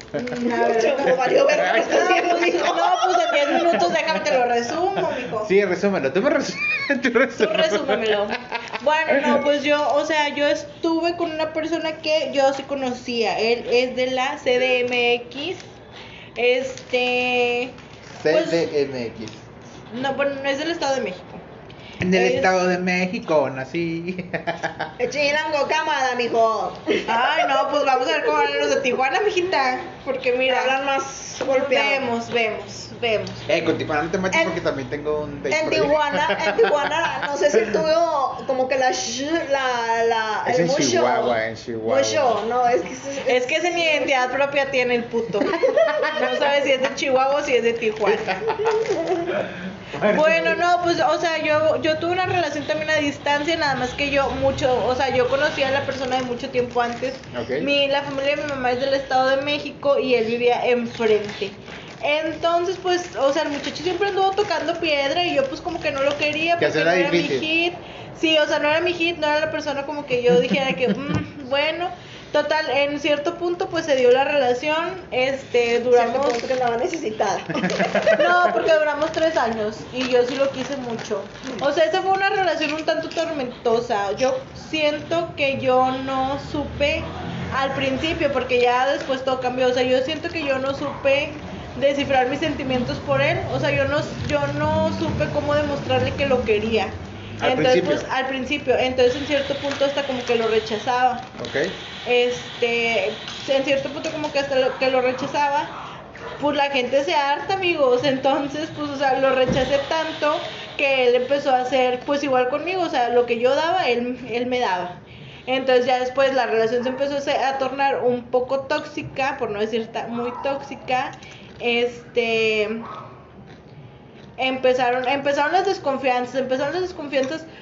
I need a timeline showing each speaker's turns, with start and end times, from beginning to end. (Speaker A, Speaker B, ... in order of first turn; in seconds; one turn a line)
Speaker A: 0.1-5.5
Speaker B: 0.4-3.3
Speaker C: 1.5-2.3
Speaker C: 3.4-4.4
Speaker C: 5.4-9.4
Speaker A: 7.4-15.7
Speaker A: 16.4-17.7
Speaker C: 18.2-19.4
Speaker A: 18.3-18.7
Speaker A: 19.9-21.4
Speaker C: 22.0-24.9
Speaker A: 22.1-22.5
Speaker B: 25.0-28.8
Speaker A: 27.1-30.8
Speaker B: 30.4-32.1
Speaker A: 31.4-33.5
Speaker C: 33.5-36.9
Speaker B: 34.3-34.6
Speaker B: 35.5-44.3
Speaker C: 40.5-42.4
Speaker A: 43.3-48.5
Speaker B: 45.5-46.0
Speaker C: 45.7-46.2
Speaker C: 48.2-50.6
Speaker A: 50.1-76.5
Speaker C: 57.3-57.7
Speaker C: 66.6-67.5
Speaker B: 75.9-78.6
Speaker C: 77.7-78.2
Speaker A: 78.1-101.3
Speaker C: 97.4-98.0
Speaker C: 101.3-101.7
Speaker A: 102.0-105.7
Speaker A: 106.4-122.8
Speaker A: 124.4-127.5